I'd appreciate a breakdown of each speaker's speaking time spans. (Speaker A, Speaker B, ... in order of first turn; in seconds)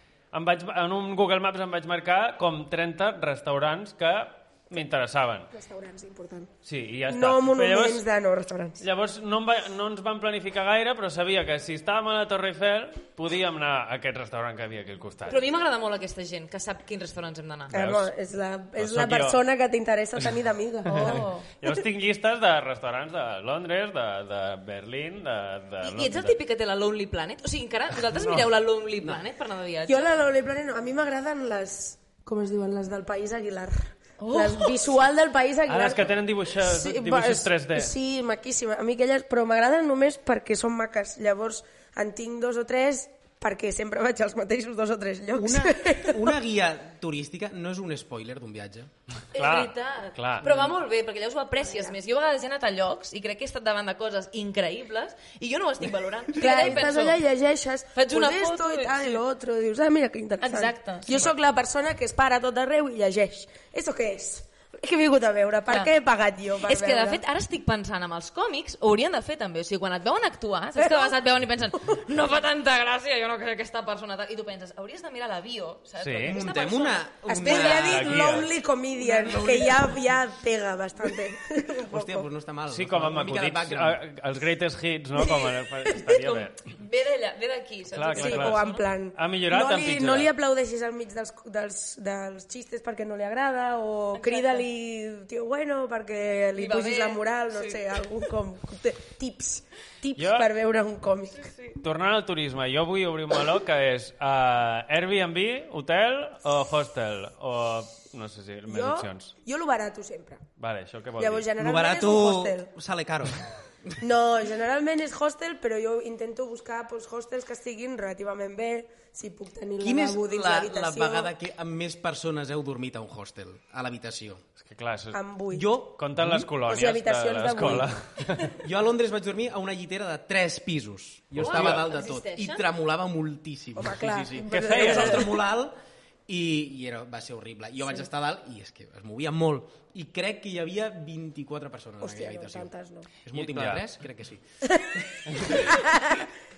Speaker A: 0.3-5.5, 6.6-8.0, 8.8-15.4, 17.7-18.1, 18.8-19.4, 20.9-26.4, 28.1-28.5, 35.7-37.9, 49.3-50.6, 76.0-76.4, 77.8-78.5, 82.7-86.6, 87.9-90.3, 100.2-100.5, 101.8-109.3, 110.6-111.5, 124.6-125.2, 126.0-128.6, 131.4-131.9, 134.5-135.3, 143.3-143.8, 145.3-145.7
Speaker B: 5.5-6.5, 7.1-8.8, 17.7-21.7, 29.9-46.3, 51.7-51.9, 56.4-67.2, 70.8-71.1, 77.3-82.2, 88.2-101.5, 108.7-110.4, 111.2-112.7, 114.0-121.3, 125.1-125.7, 126.6-128.0, 133.8-135.3, 142.0-143.1, 144.7-145.0, 145.5-146.2
Speaker C: 15.3-17.7, 20.9-21.5, 25.8-30.1, 34.2-34.8, 49.3-57.2, 57.9-59.2, 60.4-61.3, 66.6-78.1, 86.1-88.8, 94.1-94.7, 96.5-98.0, 101.3-101.8, 131.4-132.6
Speaker D: 45.3-48.9, 76.2-78.3, 79.0-80.0, 81.9-84.0, 111.6-114.0, 119.8-124.4, 125.5-126.5, 128.6-135.7, 136.3-142.7, 143.2-144.4